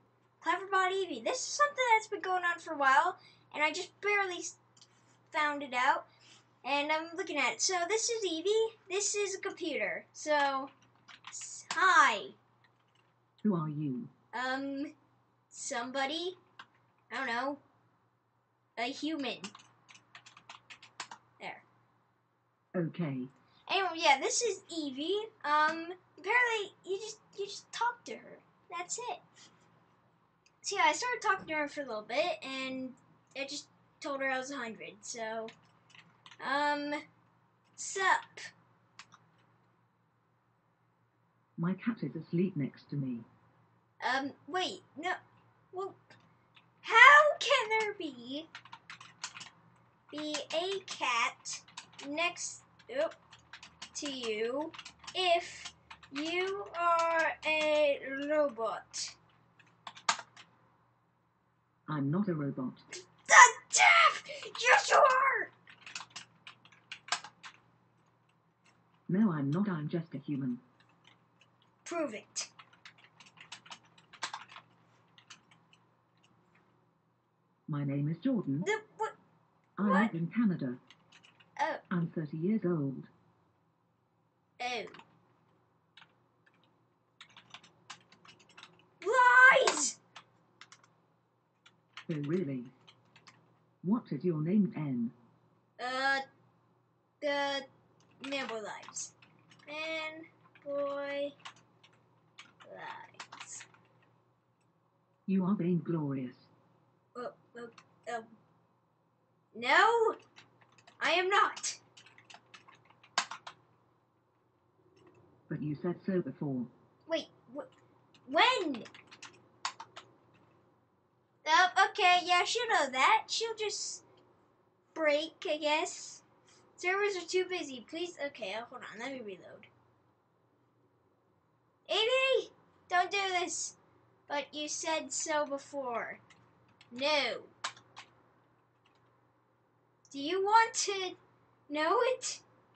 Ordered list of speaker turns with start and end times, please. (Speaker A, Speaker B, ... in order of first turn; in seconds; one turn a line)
Speaker A: 0.4-4.6
Speaker A: 5.3-6.0
Speaker A: 6.6-10.7
Speaker A: 11.3-12.4
Speaker B: 13.4-14.1
Speaker A: 14.3-14.9
Speaker A: 15.5-16.4
Speaker A: 17.1-17.6
Speaker A: 18.8-19.5
Speaker B: 22.7-23.3
Speaker A: 23.7-29.2
Speaker A: 30.6-35.5
Speaker A: 36.4-37.0
Speaker A: 37.8-38.5
Speaker B: 41.6-43.3
Speaker A: 44.0-45.2
Speaker A: 45.7-46.0
Speaker A: 46.8-48.5
Speaker A: 50.1-53.1
Speaker A: 53.9-59.1
Speaker B: 61.9-62.8
Speaker A: 63.0-65.5
Speaker B: 69.1-70.6
Speaker A: 71.8-72.5
Speaker B: 77.7-78.7
Speaker A: 78.6-79.1
Speaker B: 79.8-80.8
Speaker A: 79.8-80.1
Speaker B: 81.9-83.1
Speaker A: 84.6-85.0
Speaker A: 89.0-90.0
Speaker B: 92.1-92.7
Speaker B: 93.8-95.1
Speaker A: 95.8-96.2
Speaker A: 97.2-97.7
Speaker A: 98.2-99.1
Speaker A: 99.7-101.3
Speaker A: 102.6-103.7
Speaker B: 105.3-106.5
Speaker A: 107.1-108.3
Speaker A: 109.5-110.2
Speaker A: 111.0-111.8
Speaker B: 115.5-116.7
Speaker A: 117.1-117.7
Speaker A: 118.3-118.9
Speaker A: 121.4-124.0
Speaker A: 124.9-126.2
Speaker A: 126.8-129.7
Speaker A: 131.9-133.8
Speaker A: 134.3-136.2
Speaker A: 136.9-137.5
Speaker A: 140.1-141.2
Speaker A: 141.7-142.4